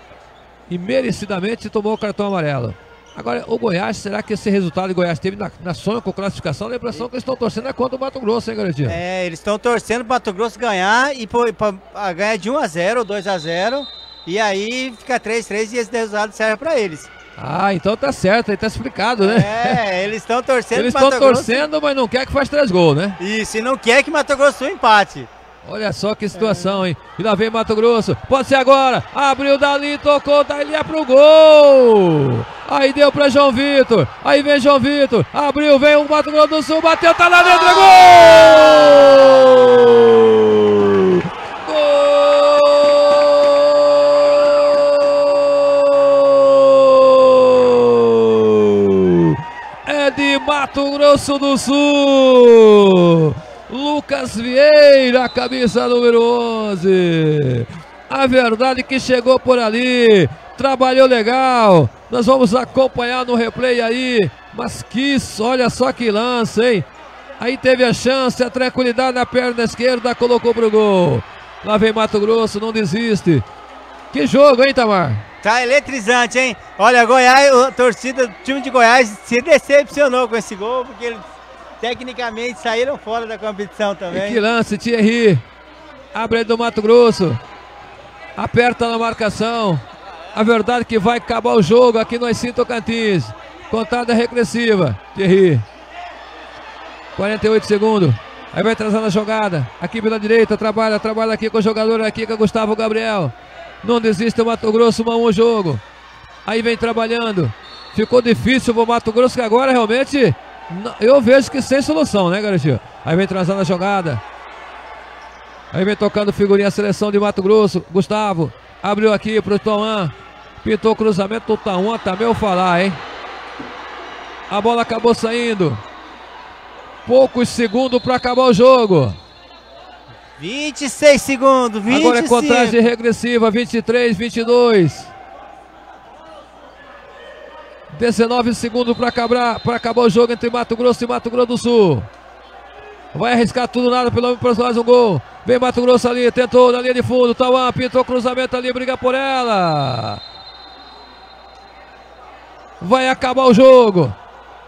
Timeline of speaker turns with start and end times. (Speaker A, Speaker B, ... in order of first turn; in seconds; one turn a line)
Speaker A: 0.7-9.0
Speaker B: 8.8-17.1
Speaker A: 17.4-19.8
Speaker B: 19.2-21.6
Speaker A: 20.7-23.2
Speaker B: 23.2-25.3
Speaker A: 25.6-66.9
Speaker B: 26.3-26.8
Speaker A: 67.4-73.4
Speaker A: 74.1-75.2
Speaker B: 75.4-81.2
Speaker B: 81.8-84.4
Speaker A: 84.1-85.4
Speaker A: 86.1-87.4
Speaker A: 88.4-95.7
Speaker A: 97.2-105.8
Speaker A: 106.5-114.2
Speaker A: 115.7-123.0
Speaker A: 124.5-125.8
Speaker A: 127.0-129.2
Speaker B: 130.4-132.8
Speaker A: 131.9-135.1
Speaker A: 137.9-142.1
Speaker A: 143.1-150.2
Speaker A: 152.8-154.2